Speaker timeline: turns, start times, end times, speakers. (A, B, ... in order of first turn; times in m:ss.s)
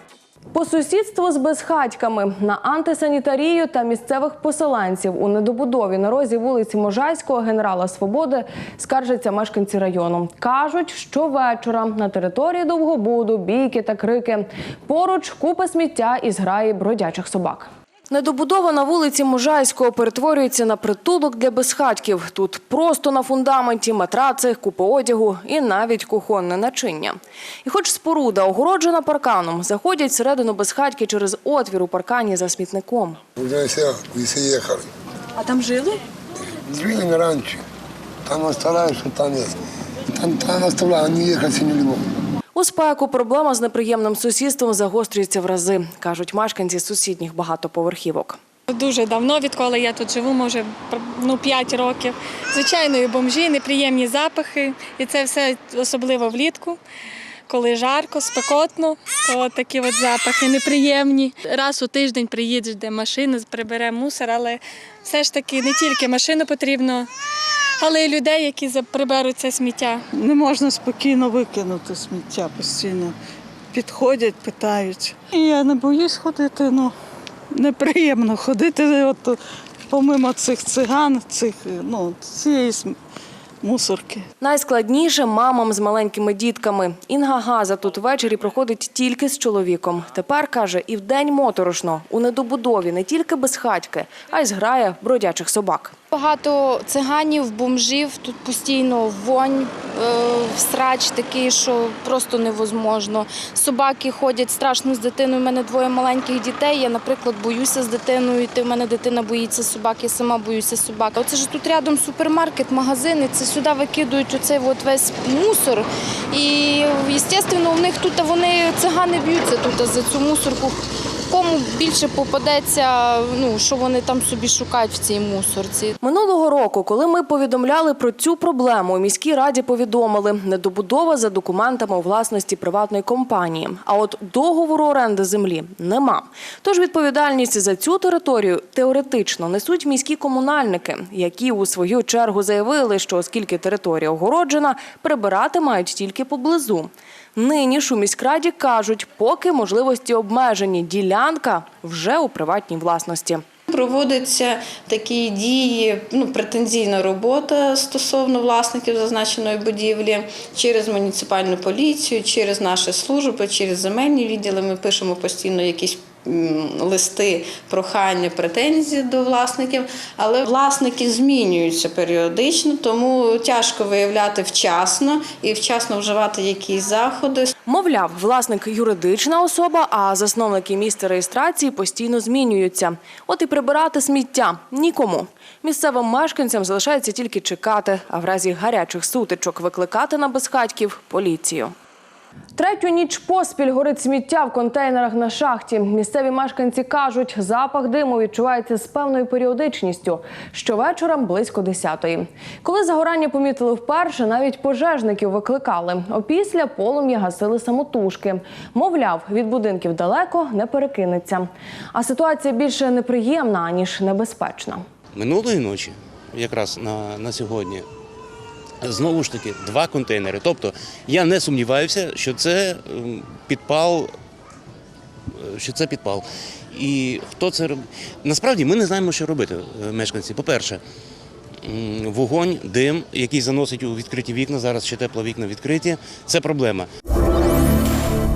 0:00.5-0:33.2 A
0:33.4-0:34.9 B
0:36.7-0:37.6 B
0:38.3-0:39.5 B
0:40.2-0:42.0 B
0:42.6-0:48.4 A
0:48.7-0:56.8 C
0:57.5-1:07.1 C
1:07.8-1:10.0 C
1:10.1-1:13.2 D
1:13.7-1:16.9 D
1:17.5-1:19.4 D
1:19.9-1:23.0 D
1:23.6-1:24.2 D
1:24.4-1:36.0 A
1:36.1-2:00.8 E
2:01.3-2:05.9 E
2:06.0-2:33.4 A
2:33.7-2:57.5 F
2:57.7-3:11.7 A
3:12.6-3:34.8 A
3:35.1-3:37.9 G
3:38.8-3:44.1 G
3:45.4-3:50.8 G
3:51.7-3:56.9 G